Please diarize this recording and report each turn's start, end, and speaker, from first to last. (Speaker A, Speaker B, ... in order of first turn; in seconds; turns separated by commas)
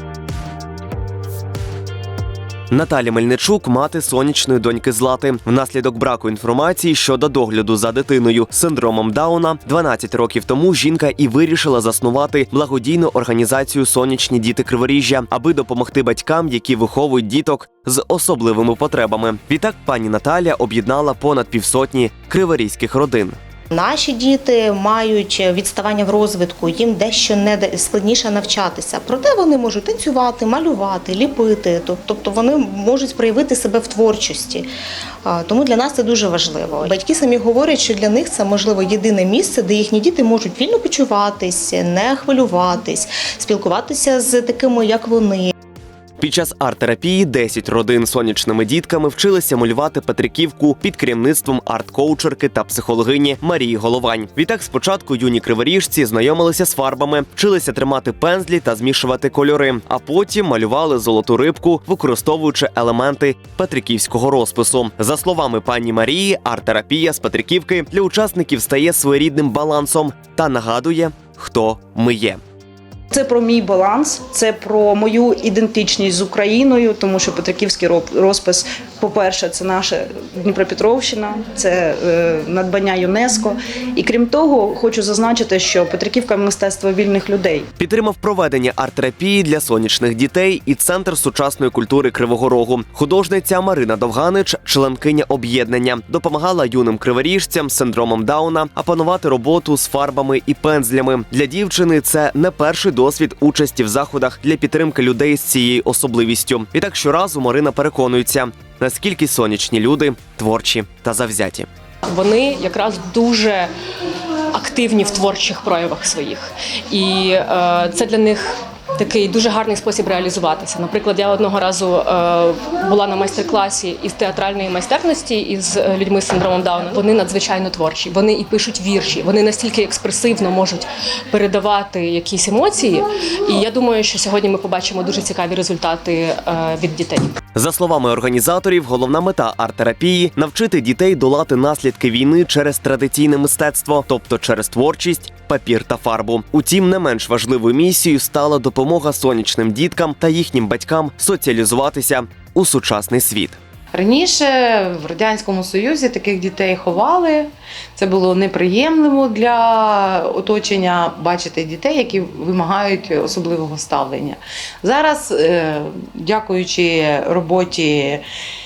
Speaker A: 2.7-23.4, Speaker B: 23.7-34.7, Speaker B: 35.2-45.5, Speaker A: 46.2-72.4, Speaker C: 73.1-87.7, Speaker A: 87.8-111.7, Speaker D: 112.0-113.7, Speaker D: 114.5-137.3, Speaker A: 137.5-153.6, Speaker E: 153.9-168.2